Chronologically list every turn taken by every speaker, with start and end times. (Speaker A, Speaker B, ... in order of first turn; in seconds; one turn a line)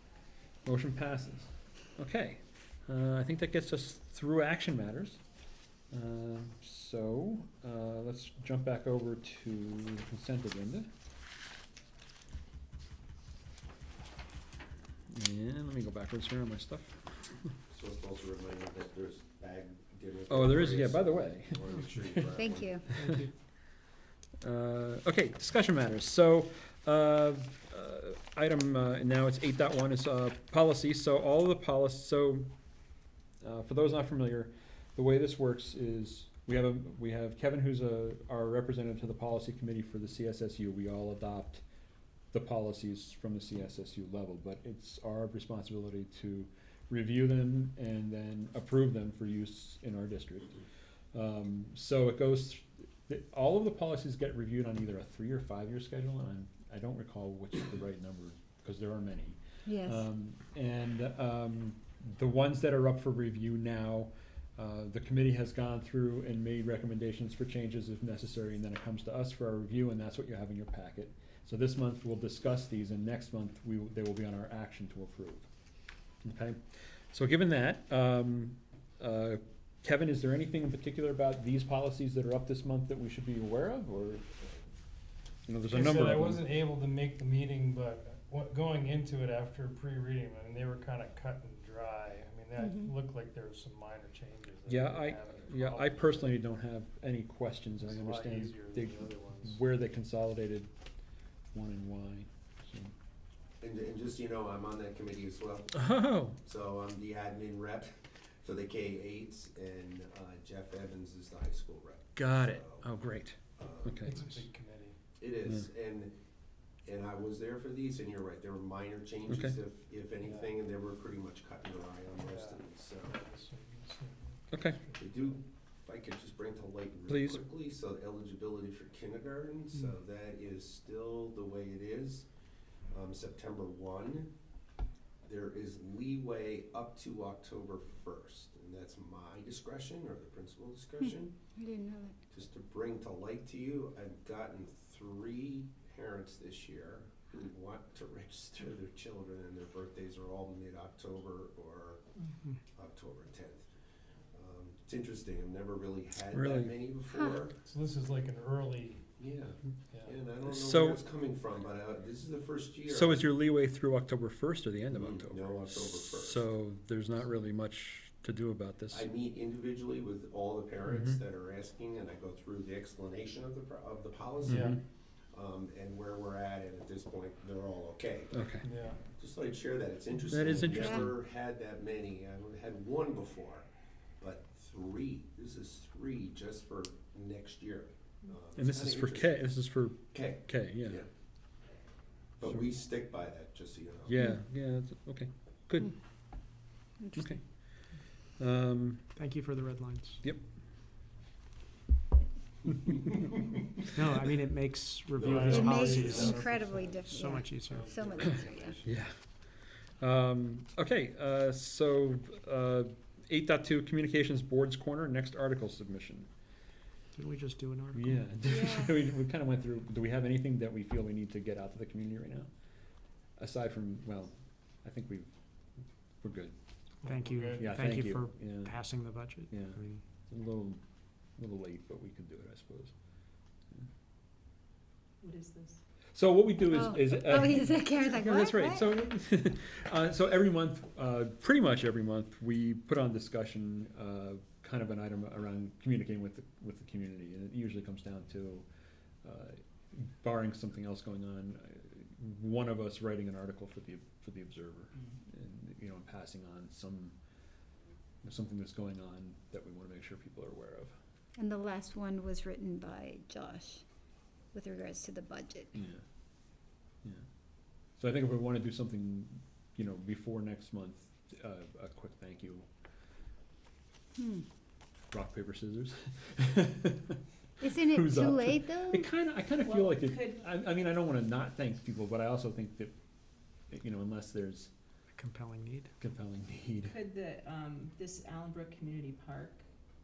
Speaker A: 0.6-5.2
Speaker A: 5.9-10.9
Speaker A: 15.1-17.5
Speaker B: 17.7-22.8
Speaker A: 20.3-22.3
Speaker C: 22.4-22.9
Speaker A: 22.9-23.2
Speaker D: 22.9-23.3
Speaker A: 24.4-32.5
Speaker A: 33.4-41.6
Speaker A: 42.3-50.6
Speaker A: 51.1-75.5
Speaker C: 59.6-60.0
Speaker A: 76.2-76.6
Speaker A: 77.1-84.6
Speaker A: 85.5-86.5
Speaker E: 85.7-96.4
Speaker C: 92.6-92.9
Speaker A: 94.7-100.7
Speaker E: 97.8-99.6
Speaker A: 101.5-102.9
Speaker B: 103.6-105.8
Speaker A: 105.7-106.4
Speaker B: 106.4-112.8
Speaker A: 112.2-114.2
Speaker B: 113.6-114.1
Speaker E: 114.0-115.0
Speaker B: 115.2-116.1
Speaker B: 116.8-123.2
Speaker A: 119.3-119.5
Speaker E: 122.2-125.0
Speaker A: 124.5-124.8
Speaker B: 125.0-132.2
Speaker A: 127.1-127.4
Speaker B: 132.9-134.3
Speaker B: 135.2-141.3
Speaker C: 141.6-142.1
Speaker B: 142.3-152.0
Speaker B: 152.7-153.6
Speaker B: 154.3-157.6
Speaker A: 156.3-156.8
Speaker C: 157.1-157.4
Speaker E: 157.6-159.1
Speaker B: 159.2-163.3
Speaker E: 159.9-160.2
Speaker A: 160.4-161.0
Speaker A: 162.9-169.1
Speaker B: 164.9-166.4
Speaker B: 168.9-174.8
Speaker A: 170.9-171.2
Speaker A: 174.4-174.8
Speaker B: 175.3-178.3
Speaker A: 178.3-178.7
Speaker E: 178.6-179.0
Speaker B: 179.1-183.6
Speaker A: 180.3-181.2
Speaker C: 180.6-181.0
Speaker B: 184.2-189.5
Speaker A: 188.6-191.0
Speaker B: 190.1-191.1
Speaker B: 192.4-194.1
Speaker A: 194.1-195.9
Speaker C: 197.0-197.4
Speaker A: 197.1-197.4
Speaker A: 198.4-199.0
Speaker D: 199.1-200.2
Speaker D: 203.9-208.0
Speaker B: 205.2-206.5
Speaker E: 205.3-207.1
Speaker C: 205.4-208.8
Speaker E: 207.6-208.9
Speaker A: 208.8-209.1
Speaker A: 210.0-216.3
Speaker D: 217.1-218.2
Speaker A: 217.9-222.5
Speaker C: 218.4-218.9
Speaker A: 223.4-225.3
Speaker A: 226.2-226.5
Speaker E: 227.0-227.6
Speaker D: 227.0-230.0
Speaker A: 227.6-228.8
Speaker A: 229.5-230.8
Speaker A: 231.4-232.9
Speaker F: 235.2-235.8
Speaker A: 236.1-248.6
Speaker C: 236.7-238.9
Speaker A: 249.2-257.1
Speaker A: 258.2-260.9
Speaker C: 261.4-263.8
Speaker C: 264.5-265.7
Speaker A: 265.7-266.0
Speaker A: 268.0-272.6
Speaker C: 274.2-274.4
Speaker A: 275.1-282.9
Speaker C: 277.6-279.1
Speaker F: 279.6-280.4
Speaker A: 283.7-284.7
Speaker D: 285.1-285.9
Speaker A: 286.0-287.0
Speaker F: 286.9-289.6